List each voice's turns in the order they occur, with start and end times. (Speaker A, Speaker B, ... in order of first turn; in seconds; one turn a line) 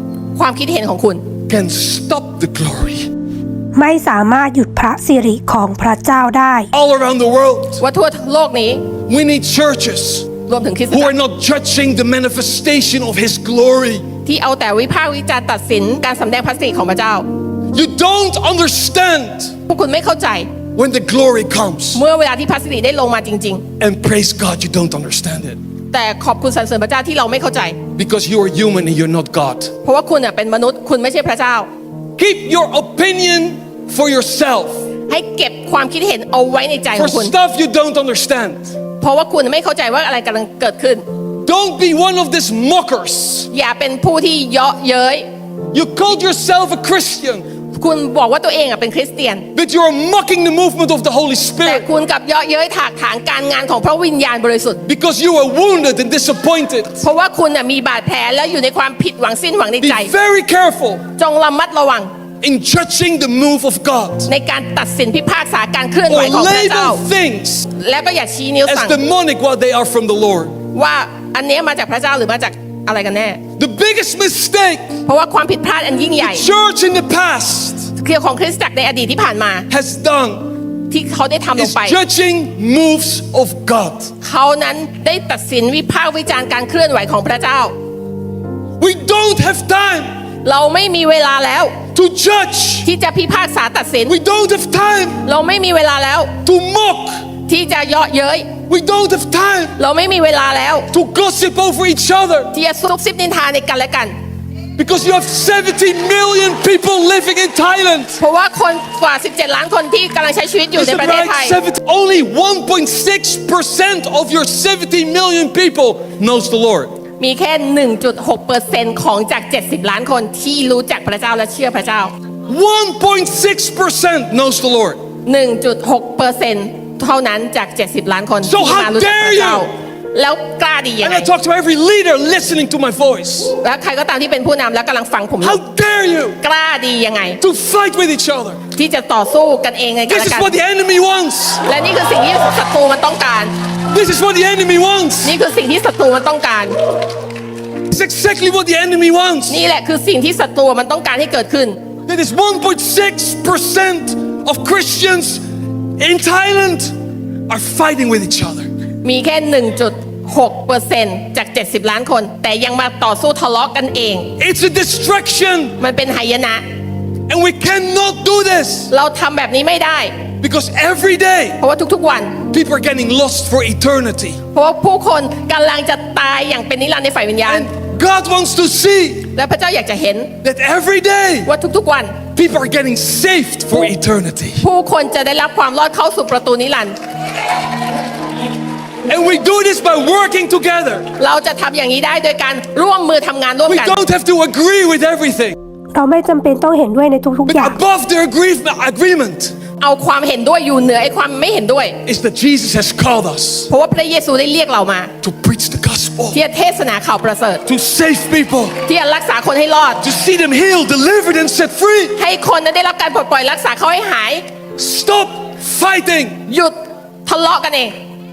Speaker A: 0.4-1.3
Speaker B: 1.5-3.1
Speaker C: 3.8-6.7
Speaker B: 6.7-7.8
Speaker A: 7.8-8.9
Speaker B: 9.1-10.3
Speaker A: 10.5-11.1
Speaker B: 10.9-14.1
Speaker A: 14.2-17.3
Speaker B: 17.7-19.6
Speaker A: 19.7-20.5
Speaker B: 20.8-22.0
Speaker A: 21.9-23.6
Speaker B: 23.8-25.6
Speaker A: 25.9-27.8
Speaker B: 28.0-29.7
Speaker A: 29.8-31.7
Speaker B: 32.2-34.9
Speaker A: 35.1-37.4
Speaker B: 37.0-38.8
Speaker A: 39.0-41.0
Speaker B: 41.4-43.5
Speaker A: 43.5-45.3
Speaker B: 45.7-47.5
Speaker A: 47.7-49.5
Speaker B: 49.5-51.9
Speaker A: 51.6-54.8
Speaker B: 54.9-57.0
Speaker A: 57.0-60.1
Speaker B: 59.8-61.0
Speaker A: 61.2-62.1
Speaker B: 62.4-64.3
Speaker A: 64.3-67.0
Speaker B: 66.1-67.7
Speaker A: 67.8-69.0
Speaker B: 68.7-70.6
Speaker A: 70.7-73.4
Speaker B: 73.6-74.9
Speaker A: 75.1-76.5
Speaker B: 76.2-77.9
Speaker A: 78.0-79.7
Speaker B: 79.7-80.5
Speaker A: 80.9-82.0
Speaker B: 81.5-84.1
Speaker A: 84.2-87.8
Speaker B: 88.8-90.1
Speaker A: 90.5-91.8
Speaker B: 91.9-92.9
Speaker A: 92.8-94.1
Speaker B: 94.1-95.2
Speaker A: 95.2-96.4
Speaker B: 96.4-97.2
Speaker A: 97.5-98.5
Speaker B: 98.7-99.8
Speaker A: 99.8-100.9
Speaker B: 100.9-102.5
Speaker A: 102.5-104.2
Speaker B: 104.8-108.2
Speaker A: 108.2-111.6
Speaker B: 110.8-116.9
Speaker A: 117.2-122.1
Speaker B: 122.5-125.0
Speaker A: 125.3-131.3
Speaker B: 128.4-129.7
Speaker B: 131.0-133.5
Speaker A: 133.6-135.6
Speaker B: 135.4-136.4
Speaker A: 136.4-137.4
Speaker B: 137.4-138.6
Speaker A: 138.8-140.6
Speaker B: 140.1-141.6
Speaker A: 141.6-143.5
Speaker B: 143.9-145.3
Speaker A: 145.2-146.8
Speaker B: 147.9-149.6
Speaker A: 149.5-151.8
Speaker B: 152.1-155.4
Speaker B: 156.0-156.9
Speaker B: 157.5-158.7
Speaker A: 159.0-164.3
Speaker B: 164.4-165.8
Speaker A: 165.8-166.6
Speaker B: 167.3-168.9
Speaker A: 168.9-170.2
Speaker B: 170.4-171.6
Speaker A: 171.6-172.4
Speaker B: 172.5-174.4
Speaker A: 174.5-177.7
Speaker B: 177.4-179.3
Speaker A: 179.3-180.4
Speaker B: 180.4-181.5
Speaker A: 181.5-182.2
Speaker B: 182.3-184.6
Speaker A: 184.6-187.0
Speaker B: 189.1-191.1
Speaker A: 191.2-194.0
Speaker B: 193.7-195.6
Speaker C: 195.9-197.8
Speaker B: 197.5-199.5
Speaker A: 199.8-202.0
Speaker B: 202.1-203.7
Speaker A: 203.7-205.1
Speaker B: 205.2-206.4
Speaker A: 206.3-207.6
Speaker B: 207.7-208.8
Speaker A: 208.8-210.0
Speaker B: 210.0-212.2
Speaker A: 212.2-214.5
Speaker B: 214.8-216.4
Speaker A: 216.5-218.0